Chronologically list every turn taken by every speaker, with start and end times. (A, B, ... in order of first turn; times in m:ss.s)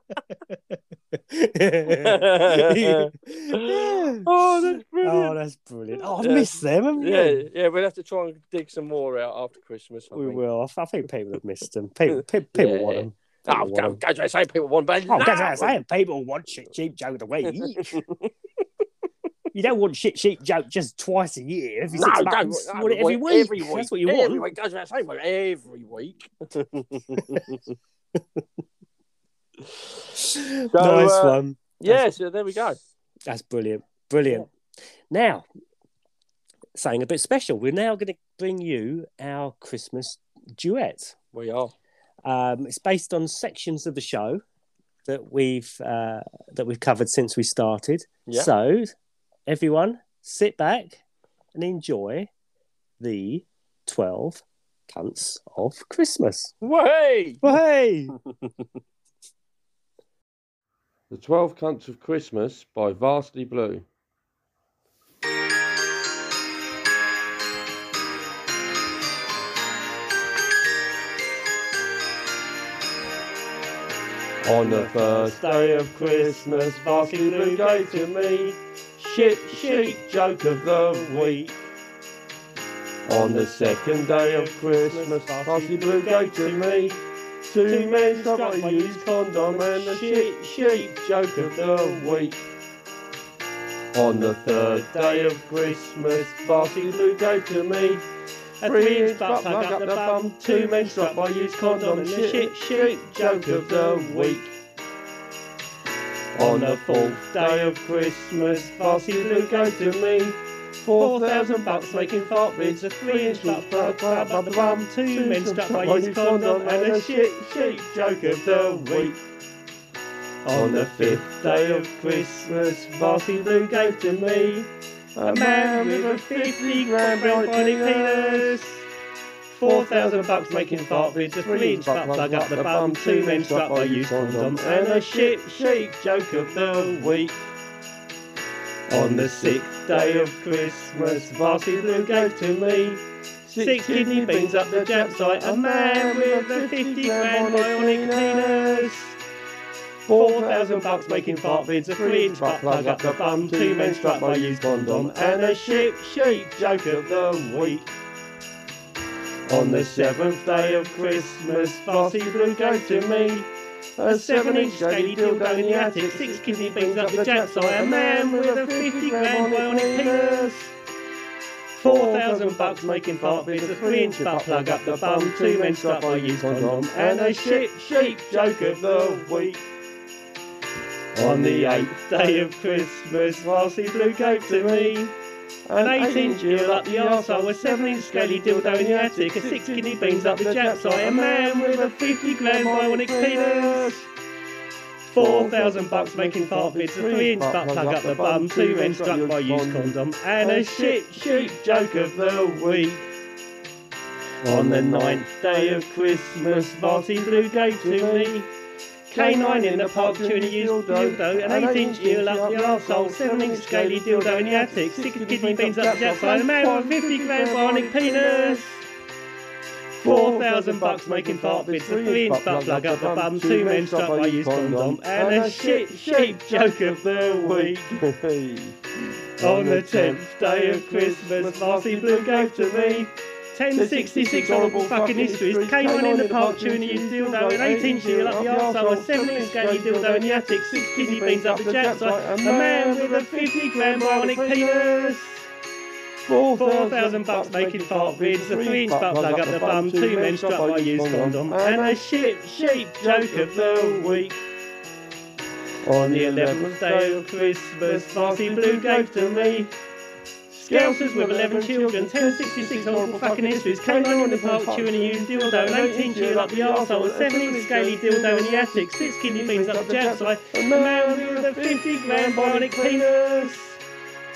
0:00.3-0:04.5 A
0:01.9-0:05.4 B
0:05.0-0:07.4 A
0:06.1-0:10.4 B
0:10.1-0:14.0 A
0:12.1-0:15.8 B
0:15.1-0:18.0 A
0:17.4-0:18.3 B
0:19.5-0:24.5 A
0:21.9-0:27.7 B
0:27.2-0:27.4 A
0:28.2-0:28.4 A
0:30.2-0:32.0 A
0:30.7-0:32.8 B
0:33.3-0:34.5 A
0:35.1-0:35.4 A
0:36.7-0:41.1 A
0:41.3-0:41.7 B
0:42.2-0:44.4 A
0:45.0-0:48.9 A
0:49.5-0:51.0 A
0:51.5-0:52.3 A
0:53.0-0:56.5 A
0:56.6-0:57.5 B
0:57.4-0:58.1 A
1:01.1-1:03.8 C
1:14.4-1:21.5 C
1:14.5-1:18.0 A
1:19.5-1:20.0 A
1:20.9-1:21.6 A
1:23.1-1:32.4 C
1:23.5-1:27.0 A
1:27.7-1:32.1 A
1:33.9-1:38.0 C
1:34.5-1:35.4 A
1:36.2-1:37.0 A
1:38.6-1:44.3 A
1:38.6-1:44.5 C
1:46.4-1:59.2 C
1:46.4-1:47.8 A
1:48.8-1:49.9 A
1:51.0-1:57.7 A
1:58.5-1:59.1 A
2:00.4-2:02.5 A
2:00.5-2:08.6 C
2:03.0-2:03.5 A
2:05.2-2:08.8 A
2:09.5-2:15.7 A
2:09.6-2:17.4 C
2:18.9-2:28.9 C
2:18.9-2:22.4 A
2:23.5-2:29.1 A
2:30.1-2:37.9 C
2:30.1-2:36.0 A
2:39.5-2:50.7 C
2:39.6-2:39.9 A
2:40.7-2:41.2 A
2:41.8-2:43.4 A
2:44.1-2:50.5 A
2:51.8-2:58.7 A
2:51.8-2:59.6 C
3:01.1-3:05.0 C
3:01.2-3:05.1 A
3:05.7-3:14.0 C
3:05.8-3:14.0 A
3:15.1-3:21.5 A
3:15.2-3:23.0 C
3:24.4-3:28.4 C
3:24.4-3:25.8 A
3:26.7-3:28.5 A
3:29.1-3:38.7 C
3:29.1-3:38.8 A
3:40.0-3:48.8 C
3:40.0-3:47.8 A
3:49.4-3:53.1 C
3:49.4-4:05.3 A
3:53.7-4:05.2 C
4:06.2-4:14.4 C
4:06.6-4:14.2 A
4:15.8-4:19.7 C
4:16.1-4:19.2 A
4:20.5-4:33.1 A
4:20.5-4:33.7 C